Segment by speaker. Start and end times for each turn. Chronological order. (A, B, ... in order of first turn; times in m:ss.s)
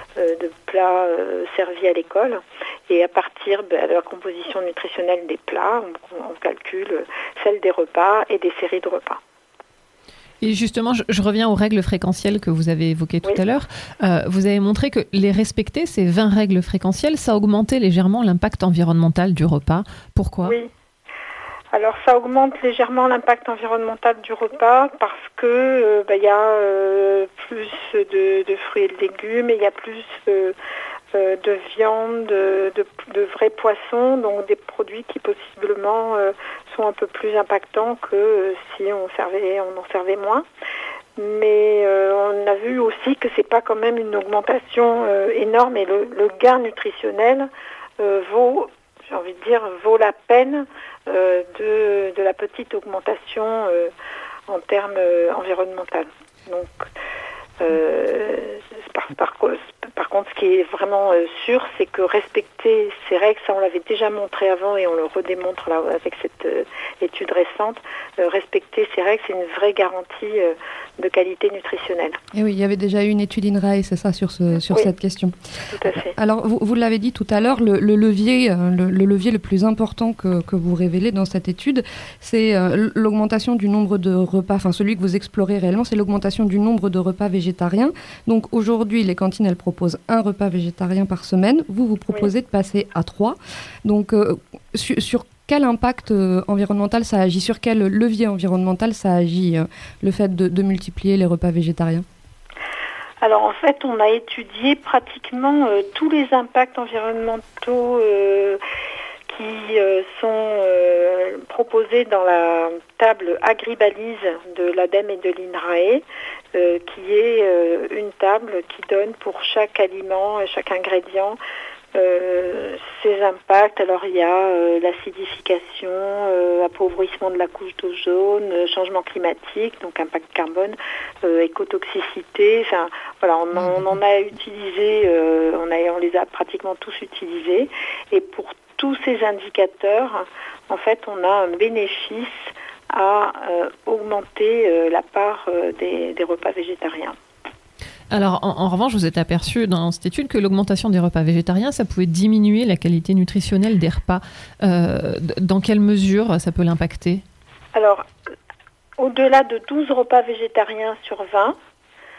0:00.2-0:09.2 A
0:10.4-0:20.6 B
0:20.4-0:20.7 A
0:21.7-0:30.5 A
0:31.1-0:40.4 A
0:41.2-0:53.9 A
0:54.5-0:56.9 A
0:57.6-1:12.2 A
1:12.3-1:15.4 C
1:15.7-1:16.1 A
1:15.9-1:42.0 C
1:43.2-1:48.6 A
1:49.3-2:01.4 A
2:01.9-2:27.2 A
2:28.1-2:37.2 B
2:37.7-2:38.0 A
2:39.0-2:41.6 A